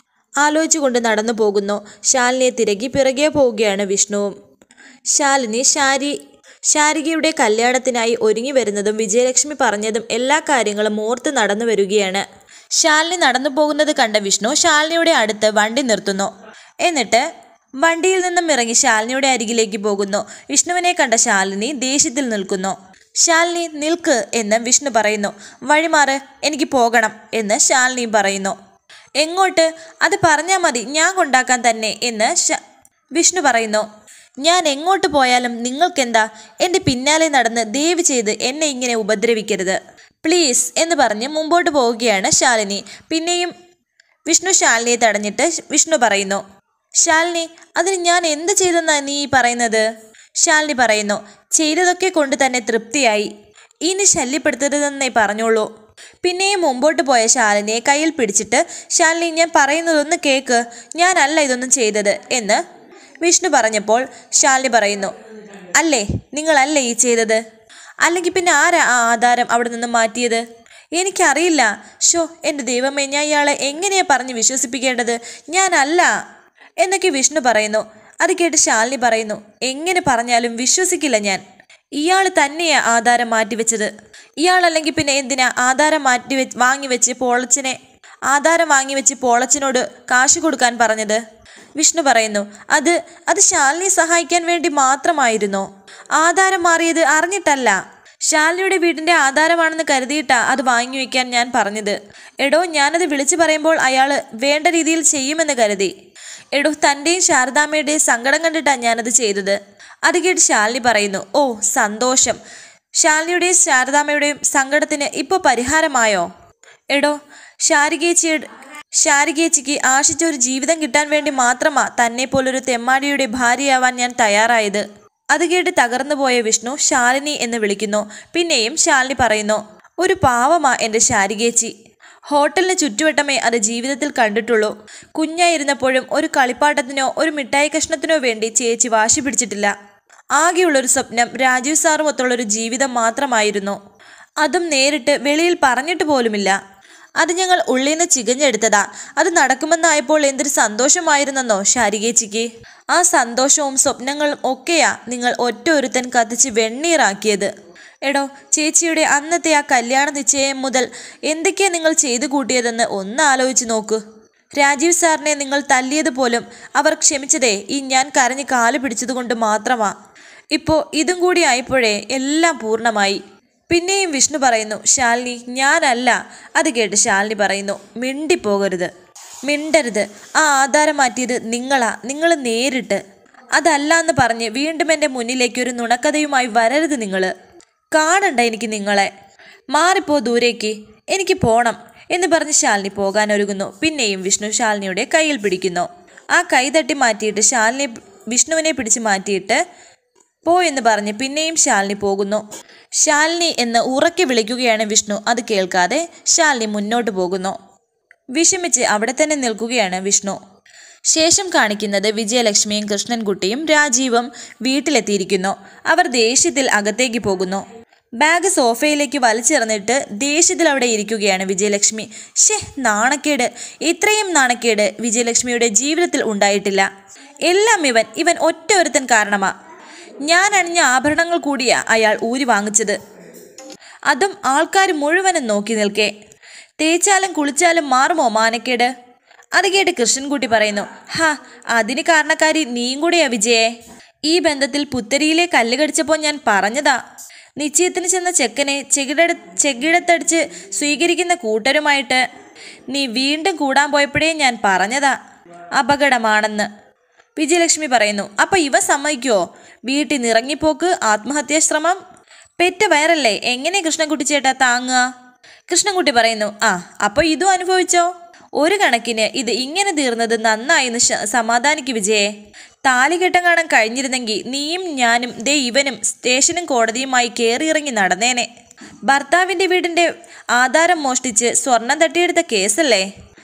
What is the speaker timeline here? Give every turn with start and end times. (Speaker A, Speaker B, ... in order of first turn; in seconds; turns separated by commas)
Speaker A: 0.4-4.3, Speaker A: 5.1-6.2, Speaker A: 6.7-12.2, Speaker A: 12.8-16.3, Speaker A: 16.8-17.2, Speaker A: 17.8-28.6, Speaker A: 29.2-32.6, Speaker A: 33.1-33.9, Speaker A: 34.4-43.5, Speaker A: 44.3-46.4, Speaker A: 47.0-49.9, Speaker A: 50.4-53.3, Speaker A: 53.8-55.7, Speaker A: 56.2-62.6, Speaker A: 63.2-65.1, Speaker A: 65.8-67.4, Speaker A: 68.0-70.4, Speaker A: 71.0-76.1, Speaker A: 76.8-81.4, Speaker A: 82.0-83.9, Speaker A: 84.4-87.8, Speaker A: 88.3-91.2, Speaker A: 91.8-95.7, Speaker A: 96.2-105.9, Speaker A: 106.5-112.4, Speaker A: 113.0-116.3, Speaker A: 116.9-118.5, Speaker A: 119.0-131.7, Speaker A: 132.3-139.7, Speaker A: 140.4-143.8, Speaker A: 144.4-146.6, Speaker A: 147.2-157.5, Speaker A: 158.0-164.0, Speaker A: 164.6-169.9, Speaker A: 170.5-178.9, Speaker A: 179.5-183.0, Speaker A: 183.5-187.3, Speaker A: 187.9-189.1, Speaker A: 189.7-199.6, Speaker A: 200.4-202.4, Speaker A: 203.0-207.6, Speaker A: 208.3-210.4, Speaker A: 211.1-217.6, Speaker A: 218.2-226.9, Speaker A: 227.4-229.5, Speaker A: 230.2-233.0, Speaker A: 234.1-236.1, Speaker A: 236.8-238.9, Speaker A: 239.5-243.7, Speaker A: 244.3-247.0, Speaker A: 247.6-252.2, Speaker A: 252.9-255.2, Speaker A: 255.8-256.7, Speaker A: 257.4-262.0, Speaker A: 262.6-265.0, Speaker A: 265.7-272.3, Speaker A: 272.8-278.5, Speaker A: 279.1-283.1